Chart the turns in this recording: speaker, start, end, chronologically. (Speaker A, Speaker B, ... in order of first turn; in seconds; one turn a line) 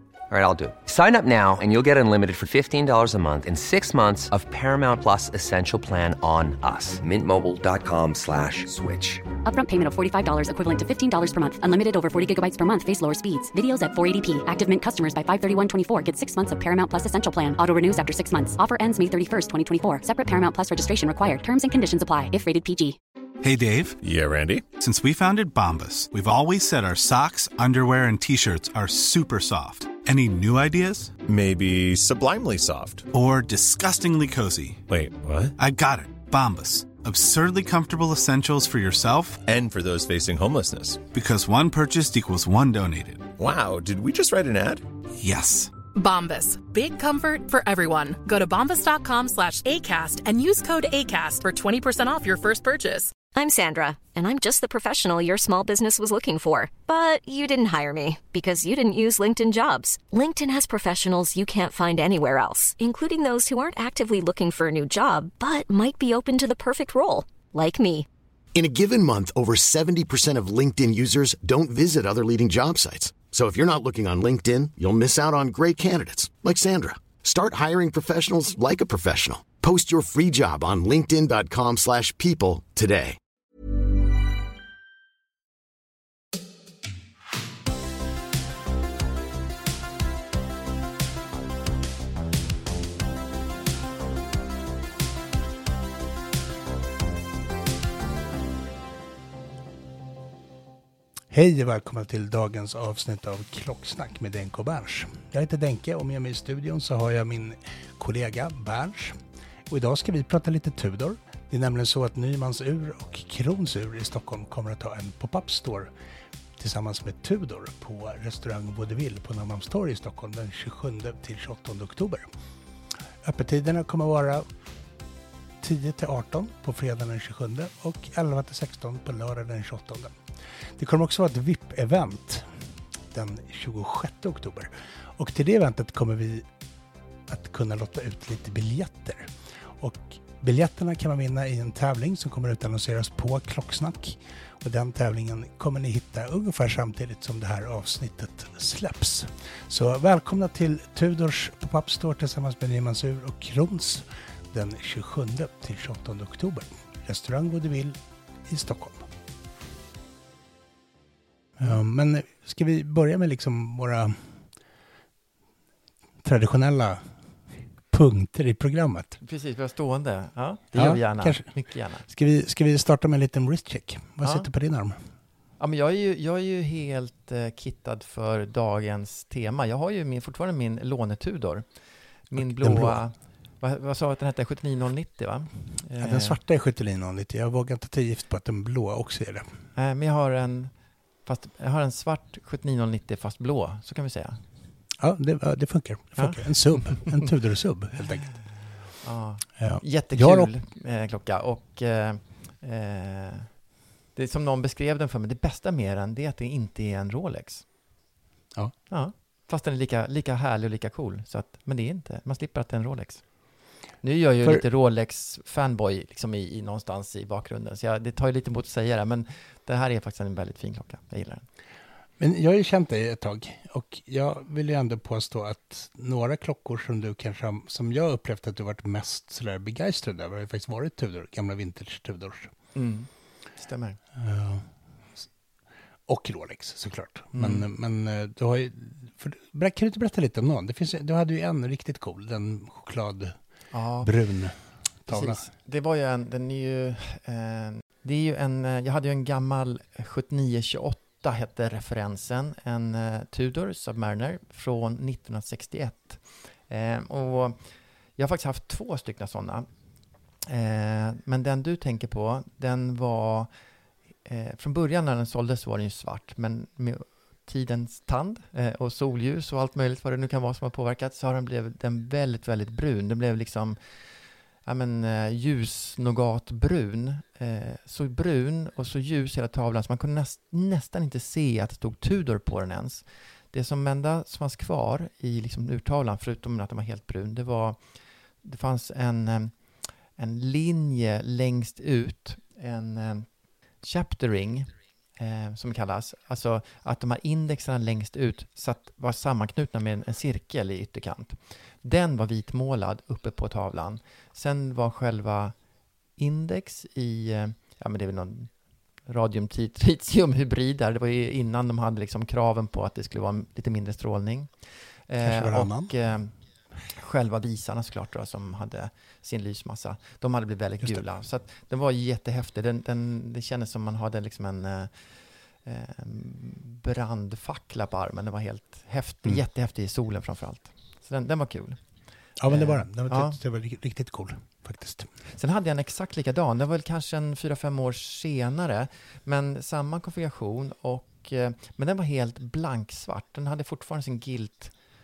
Speaker A: 0.3-9.3
Speaker B: 9.4-23.0
Speaker C: 23.4-24.0
Speaker D: 24.0-24.6
Speaker C: 24.8-31.1
Speaker D: 31.2-33.1
Speaker C: 33.1-34.8
Speaker D: 34.9-35.5
Speaker C: 35.6-39.4
Speaker D: 39.4-41.0
Speaker C: 41.1-43.3
Speaker D: 43.4-44.8
Speaker C: 45.2-45.7
Speaker E: 45.9-53.1
Speaker F: 53.3-68.1
Speaker G: 68.5-83.2
Speaker H: 101.3-115.9
Speaker H: 116.6-122.3
Speaker H: 123.2-124.5
Speaker H: 125.6-136.4
Speaker H: 137.3-159.1
Speaker H: 161.6-164.5
Speaker H: 166.2-169.2
Speaker I: 169.2-172.1
Speaker H: 170.7-175.0
Speaker I: 174.2-174.5
Speaker I: 175.6-186.4
Speaker H: 182.3-183.0
Speaker H: 186.0-189.6
Speaker I: 189.7-194.4
Speaker H: 195.0-198.6
Speaker I: 196.2-197.3
Speaker I: 199.0-207.7
Speaker H: 199.6-200.5
Speaker I: 208.9-221.4
Speaker H: 222.2-232.5
Speaker I: 232.7-234.0
Speaker H: 234.1-235.3
Speaker H: 236.1-245.5
Speaker I: 237.3-237.7
Speaker I: 243.7-244.1
Speaker I: 245.1-305.6
Speaker I: 306.1-333.4
Speaker H: 315.2-315.9
Speaker H: 320.8-321.1
Speaker H: 332.4-335.1
Speaker I: 335.3-344.8